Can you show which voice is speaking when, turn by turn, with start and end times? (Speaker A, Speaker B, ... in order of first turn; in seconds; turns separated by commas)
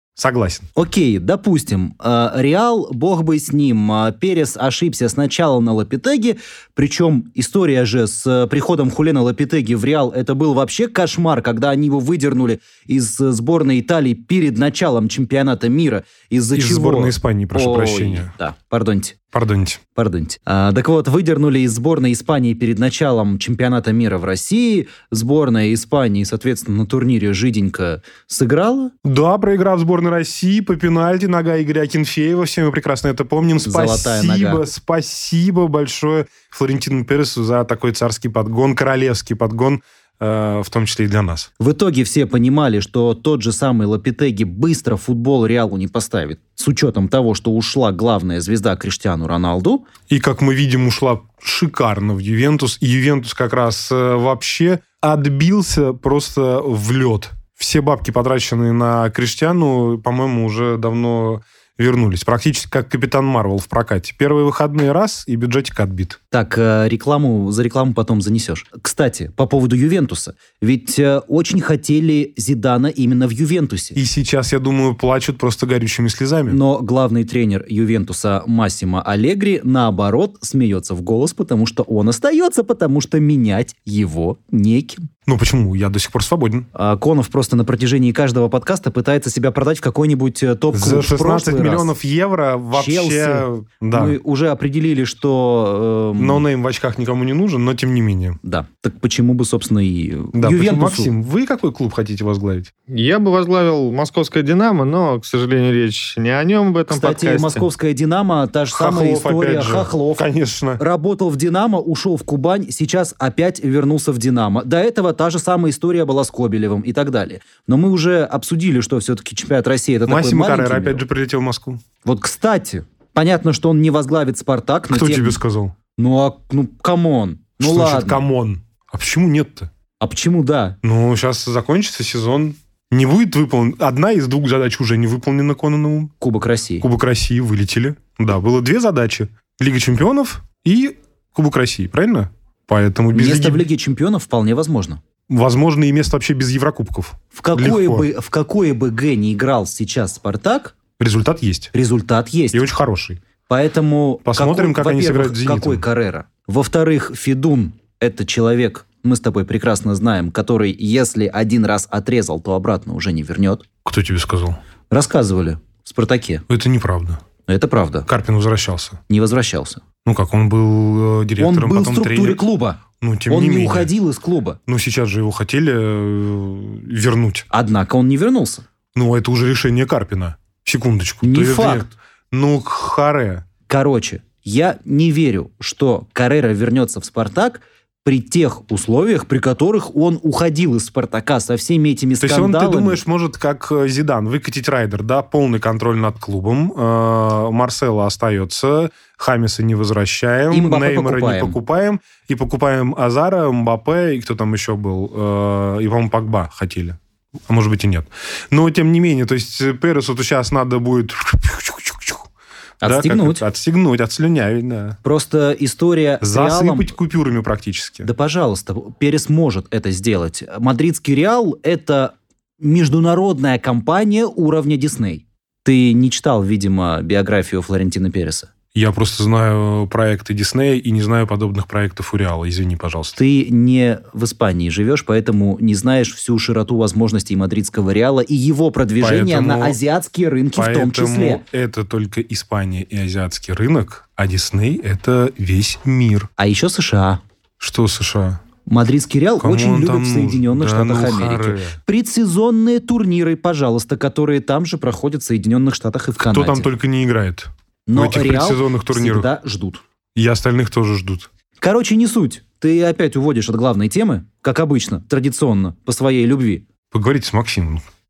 Speaker A: 0.2-0.7, Speaker B: 0.7-19.2, Speaker A: 16.5-18.3, Speaker A: 19.3-19.8, Speaker B: 19.9-28.9, Speaker A: 29.0-41.5, Speaker B: 33.6-34.6, Speaker B: 41.6-49.8, Speaker A: 50.1-66.2, Speaker B: 66.3-74.0, Speaker A: 74.0-76.6, Speaker B: 76.5-85.1, Speaker A: 85.2-86.7, Speaker B: 86.7-91.9, Speaker A: 90.7-94.2, Speaker B: 92.7-96.4, Speaker A: 96.2-98.4, Speaker B: 98.4-101.1, Speaker A: 100.3-102.7, Speaker C: 102.9-107.6, Speaker B: 106.9-121.0, Speaker A: 108.7-110.8, Speaker A: 120.1-121.8, Speaker B: 122.0-125.4, Speaker A: 124.9-125.7, Speaker B: 126.0-128.2, Speaker A: 127.6-129.7, Speaker B: 130.0-130.8, Speaker A: 130.8-136.1, Speaker B: 136.2-136.8, Speaker A: 136.8-143.7, Speaker B: 143.1-145.0, Speaker A: 145.3-148.1, Speaker B: 147.3-150.8, Speaker A: 151.0-151.7, Speaker B: 151.7-152.7, Speaker A: 152.5-153.2, Speaker B: 153.5-163.6, Speaker A: 154.2-155.8, Speaker A: 163.8-164.6, Speaker B: 164.9-166.4, Speaker A: 166.5-167.2, Speaker B: 167.5-168.1, Speaker A: 168.1-169.0, Speaker B: 169.1-169.8, Speaker A: 170.0-172.4, Speaker B: 171.4-174.6, Speaker A: 173.0-173.9, Speaker A: 174.7-177.5, Speaker B: 177.5-178.6, Speaker A: 178.9-183.4, Speaker B: 181.2-181.9, Speaker B: 183.7-193.0, Speaker A: 192.2-212.3, Speaker B: 200.5-201.6, Speaker B: 212.8-213.4, Speaker A: 212.8-215.0, Speaker B: 215.0-216.9, Speaker A: 216.2-218.1, Speaker B: 218.0-228.5, Speaker A: 228.7-233.2, Speaker B: 233.2-241.4, Speaker A: 239.0-239.8, Speaker A: 240.5-246.3, Speaker B: 246.4-247.2, Speaker A: 247.6-248.4, Speaker B: 248.7-256.7, Speaker A: 249.4-251.8, Speaker A: 256.2-259.3, Speaker B: 257.9-259.8, Speaker A: 260.1-261.3, Speaker B: 261.6-266.6, Speaker A: 266.9-267.8